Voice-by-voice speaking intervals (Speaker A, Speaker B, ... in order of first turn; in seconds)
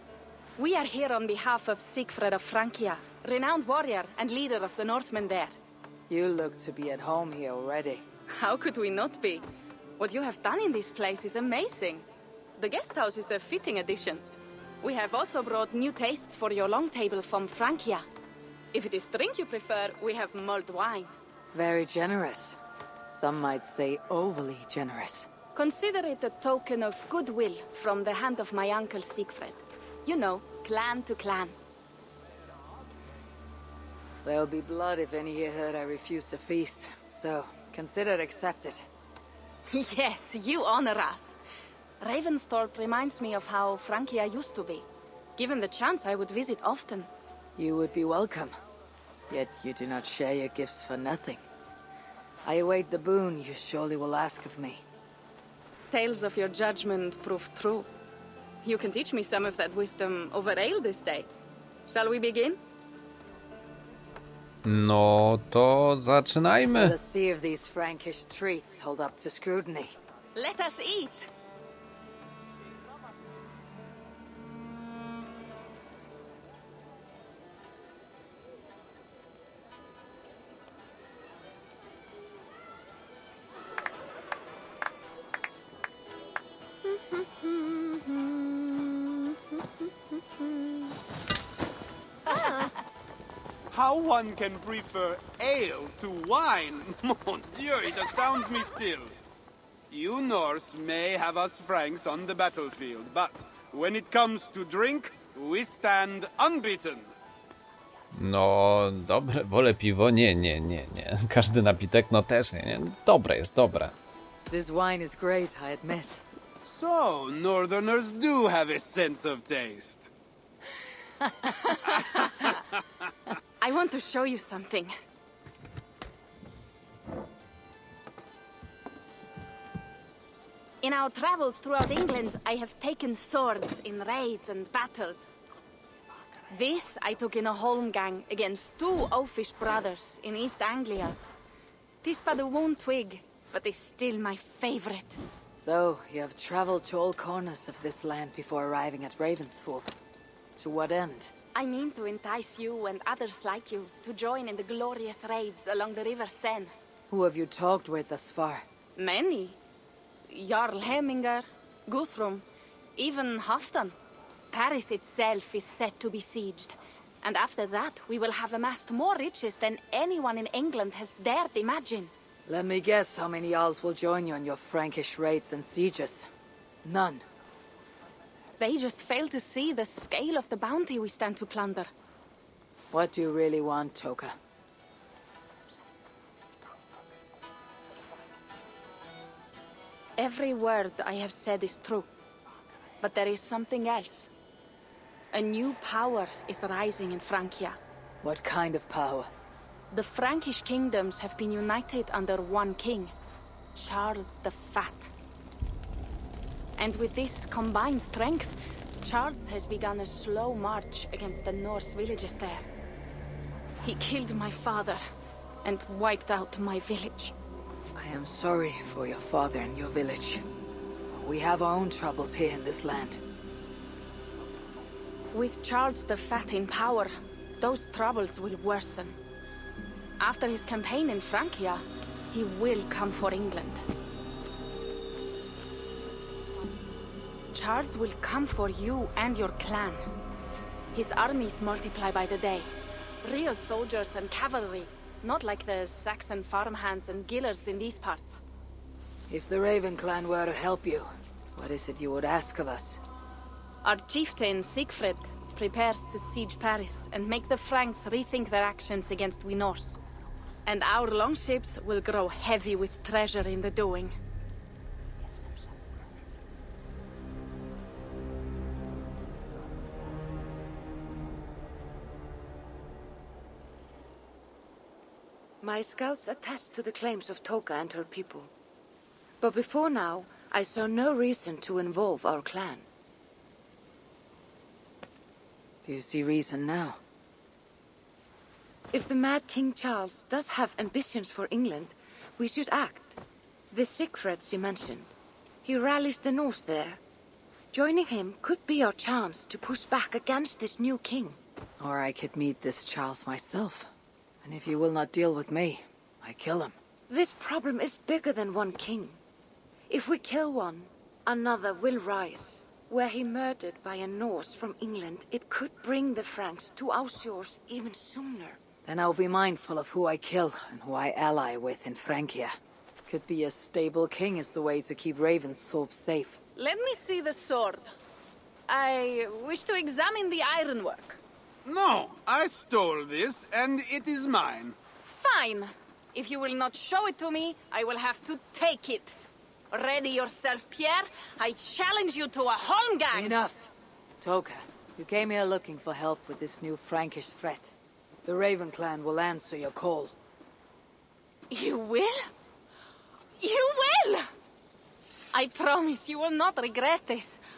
Speaker A: 0.6-5.6, 8.3-9.4, 10.0-12.1, 12.6-14.2, 14.8-18.1, 18.7-21.1, 25.6-31.6, 39.7-41.4, 42.0-44.9, 45.4-47.1, 55.9-57.9, 58.6-61.3, 61.9-62.6, 70.3-71.3, 87.0-89.2, 90.3-90.9, 121.6-122.5, 123.6-124.9, 130.8-135.4, 136.5-141.2, 142.0-145.2, 151.6-156.7, 159.0-159.6, 160.3-162.4, 163.0-163.9, 164.5-172.1, 178.6-181.9, 190.2-192.1, 193.0-194.3, 195.3-197.8, 199.9-203.1, 203.8-205.1, 206.8-212.7, 213.8-215.0, 215.6-217.3, 225.3-229.2, 230.2-233.8, 237.5-240.0, 240.9-242.7, 243.2-248.4, 253.8-260.0, 260.7-264.1, 326.6-327.9, 328.7-331.2, 335.1-339.2, 339.7-343.4, 351.5-352.3, 353.4-354.3, 355.3-357.4
Speaker B: 6.1-8.1, 21.5-25.3, 34.2-38.9, 47.6-48.5, 49.3-51.4, 52.5-54.8, 66.7-70.0, 114.5-116.2, 145.6-150.0, 150.6-151.3, 157.1-158.7, 172.5-176.3, 176.8-177.2, 182.9-184.3, 198.2-199.3, 218.0-220.5, 221.1-223.2, 249.3-253.0, 285.9-287.0, 301.8-303.9, 304.4-306.8, 318.9-322.5, 323.1-326.4, 343.1-347.7, 348.2-350.2
Speaker C: 64.6-67.0, 108.1-114.0
Speaker D: 93.7-99.1, 99.9-107.1, 116.7-120.1, 331.7-334.8
Speaker E: 275.6-278.5, 279.4-282.9, 288.9-293.2, 293.7-295.1, 295.6-297.0, 297.7-301.4, 307.1-309.2, 309.9-318.6